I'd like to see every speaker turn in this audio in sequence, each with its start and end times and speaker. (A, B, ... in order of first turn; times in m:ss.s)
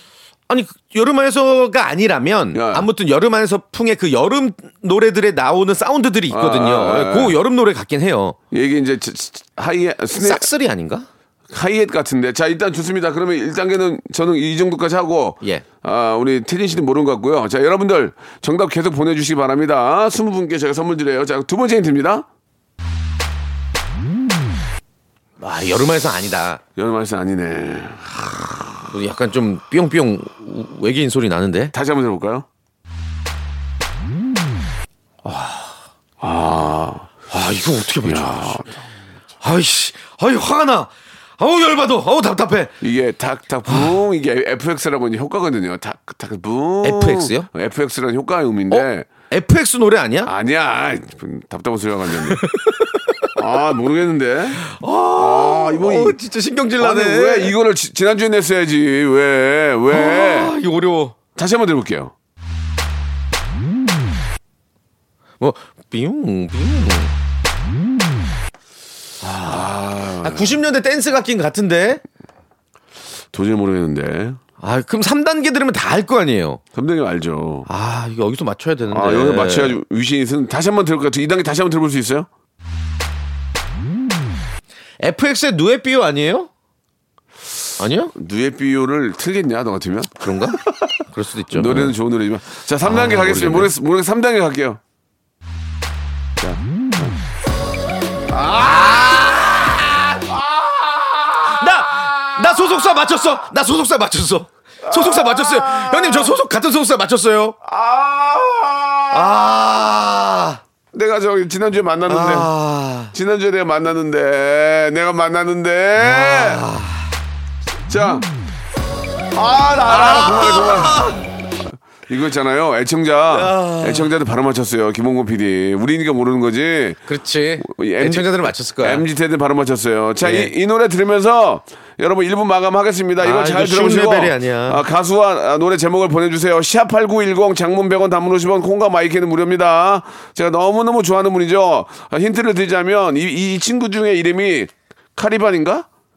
0:00.5-0:08.4 A
0:02.5-0:02.8 B
0:06.3-0:07.4 B
0:08.5-0:10.5 B
0:10.2-0:11.1 A
0:11.5-0:22.2 B
0:25.4-0:26.6 A
0:26.8-0:28.7 B
0:28.8-0:31.7 A
0:31.7-0:32.4 B
0:35.2-0:35.8 A
0:36.2-0:37.1 B
0:37.3-0:38.6 A
0:38.0-0:38.8 B
0:39.4-0:42.7 A
0:42.8-0:49.1 B
0:46.8-0:47.5 A
0:48.7-0:50.3 A
0:50.2-0:52.4 B
0:52.3-0:53.3 A
0:53.4-0:54.6 B
0:54.6-0:57.5 A
0:55.2-0:56.2 B
0:56.8-1:00.5 B
0:59.9-1:01.1 A
1:01.4-1:02.1 B
1:05.4-1:07.1 A
1:09.2-1:12.0 A
1:09.4-1:10.6 B
1:13.3-1:14.4 B
1:14.6-1:16.6 A
1:16.7-1:17.7 B
1:17.7-1:19.8 A
1:18.9-1:22.3 B
1:25.0-1:26.5 A
1:27.8-1:28.1 A
1:28.1-1:31.0 B
1:30.2-1:31.9 A
1:31.5-1:34.8 B
1:32.8-1:33.7 A
1:36.4-1:37.2 B
1:38.3-1:43.0 B
1:38.6-1:40.2 A
1:41.4-1:47.6 A
1:44.8-1:46.4 B
1:47.6-1:49.5 B
1:49.1-1:50.6 A
1:50.9-1:52.5 B
1:52.1-1:53.1 A
1:53.1-1:56.6 B
1:56.0-1:57.1 A
1:57.9-1:58.2 B
1:59.3-2:01.1 B
1:59.5-2:01.2 A
2:02.1-2:07.0 B
2:03.3-2:04.1 A
2:07.1-2:09.0 A
2:07.6-2:25.9 B
2:10.2-2:10.5 A
2:13.2-2:14.8 A